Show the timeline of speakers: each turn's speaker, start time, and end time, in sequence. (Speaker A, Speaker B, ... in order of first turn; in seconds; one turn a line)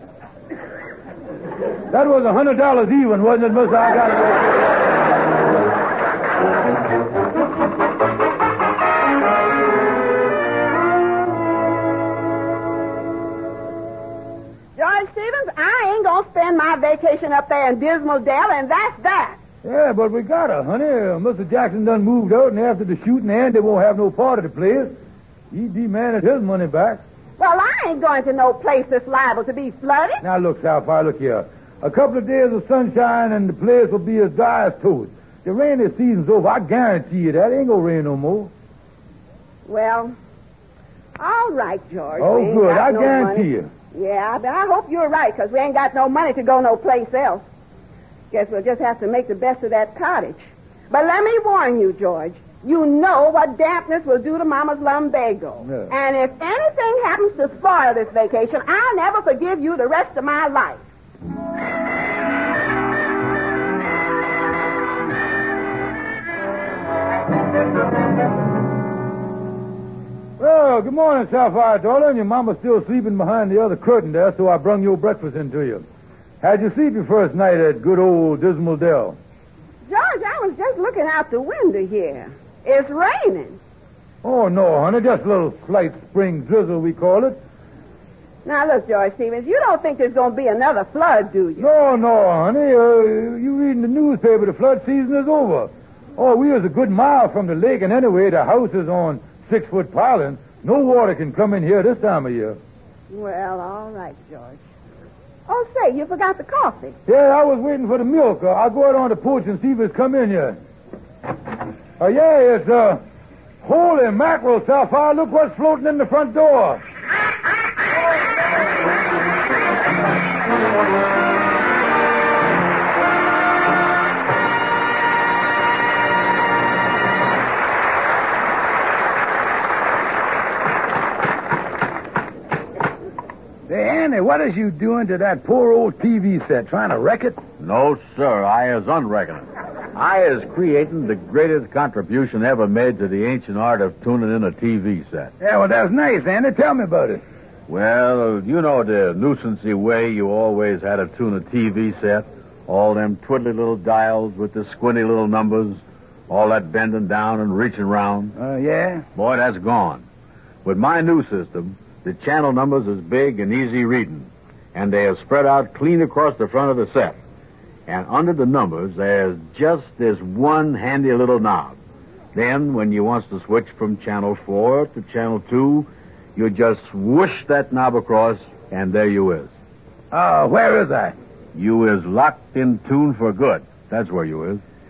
Speaker A: 1.9-4.7
Speaker B: 14.8-19.4
Speaker A: 19.6-24.9
Speaker A: 25.5-27.0
Speaker B: 27.4-30.2
Speaker A: 30.2-38.5
Speaker B: 39.6-40.1
Speaker B: 41.2-47.4
Speaker A: 42.2-43.7
Speaker B: 48.3-60.8
Speaker A: 55.6-55.9
Speaker A: 70.4-75.8
Speaker A: 76.4-79.2
Speaker B: 79.9-83.6
Speaker A: 84.2-87.4
Speaker B: 88.4-91.7
Speaker A: 91.6-102.6
Speaker B: 103.1-104.6
Speaker B: 105.5-107.0
Speaker A: 107.0-110.6
Speaker A: 112.0-113.0
Speaker A: 113.6-116.8
Speaker A: 133.7-137.4
Speaker C: 137.6-145.3
Speaker A: 145.4-147.2
Speaker C: 147.7-158.4
Speaker A: 158.4-159.1
Speaker C: 159.1-160.1
Speaker C: 160.6-167.2
Speaker C: 167.9-171.8
Speaker C: 172.3-179.5
Speaker A: 180.1-181.2
Speaker C: 181.5-184.6